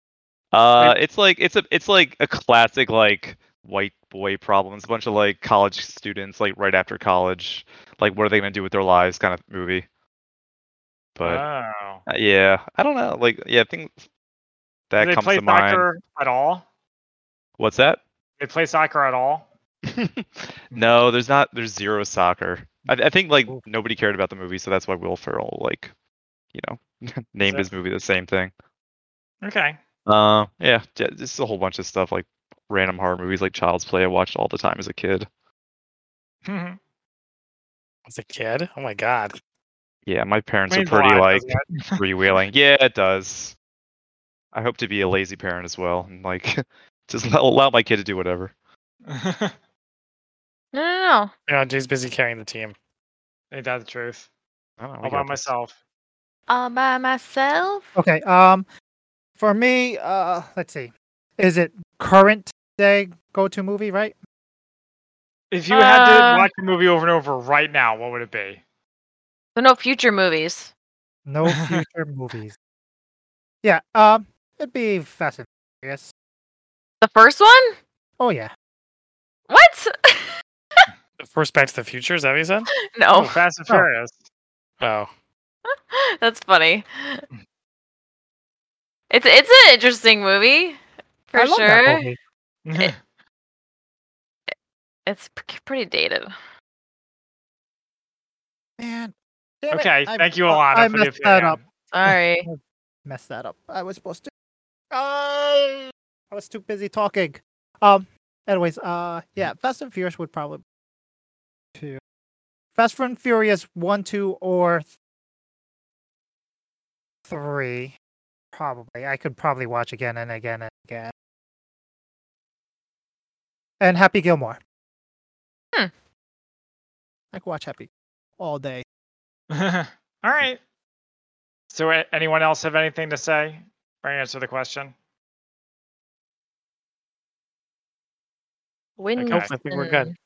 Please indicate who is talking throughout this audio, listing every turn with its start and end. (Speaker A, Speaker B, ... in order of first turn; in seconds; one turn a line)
Speaker A: 0.5-9.8
Speaker A: 11.2-11.4
Speaker B: 11.2-12.0
Speaker A: 12.1-14.0
Speaker A: 14.9-15.9
Speaker B: 15.0-16.6
Speaker A: 17.6-18.0
Speaker B: 18.4-19.4
Speaker A: 19.8-25.9
Speaker A: 26.5-28.5
Speaker B: 29.4-29.8
Speaker A: 30.1-35.3
Speaker B: 36.5-36.8
Speaker C: 38.1-39.4
Speaker A: 40.0-43.5
Speaker B: 40.7-42.0
Speaker A: 44.5-48.5
Speaker B: 49.1-49.5
Speaker D: 50.7-51.3
Speaker C: 51.5-52.7
Speaker B: 53.5-54.3
Speaker A: 54.8-55.4
Speaker B: 55.0-55.7
Speaker D: 56.5-57.9
Speaker E: 57.9-58.7
Speaker E: 59.4-64.2
Speaker B: 65.5-68.6
Speaker D: 65.7-66.5
Speaker D: 69.5-70.7
Speaker E: 71.2-72.5
Speaker B: 71.5-71.8
Speaker E: 73.6-76.1
Speaker D: 77.0-77.8
Speaker E: 78.2-78.5
Speaker D: 79.5-80.8
Speaker C: 81.2-82.7
Speaker D: 82.8-83.4
Speaker B: 83.1-84.2
Speaker C: 84.8-85.1
Speaker D: 85.7-87.2
Speaker D: 89.1-92.1
Speaker E: 91.3-92.2
Speaker B: 92.7-93.0
Speaker D: 95.0-96.3
Speaker E: 98.8-101.6
Speaker B: 99.7-101.6
Speaker D: 101.9-102.5
Speaker E: 102.5-104.3
Speaker E: 104.9-110.6
Speaker E: 111.8-112.0
Speaker E: 112.8-114.9
Speaker E: 117.3-118.0
Speaker E: 118.5-121.1
Speaker E: 123.8-124.6
Speaker E: 127.3-128.8
Speaker B: 129.5-130.6
Speaker B: 131.7-134.9
Speaker D: 139.0-140.1
Speaker B: 139.2-139.5
Speaker C: 139.2-140.1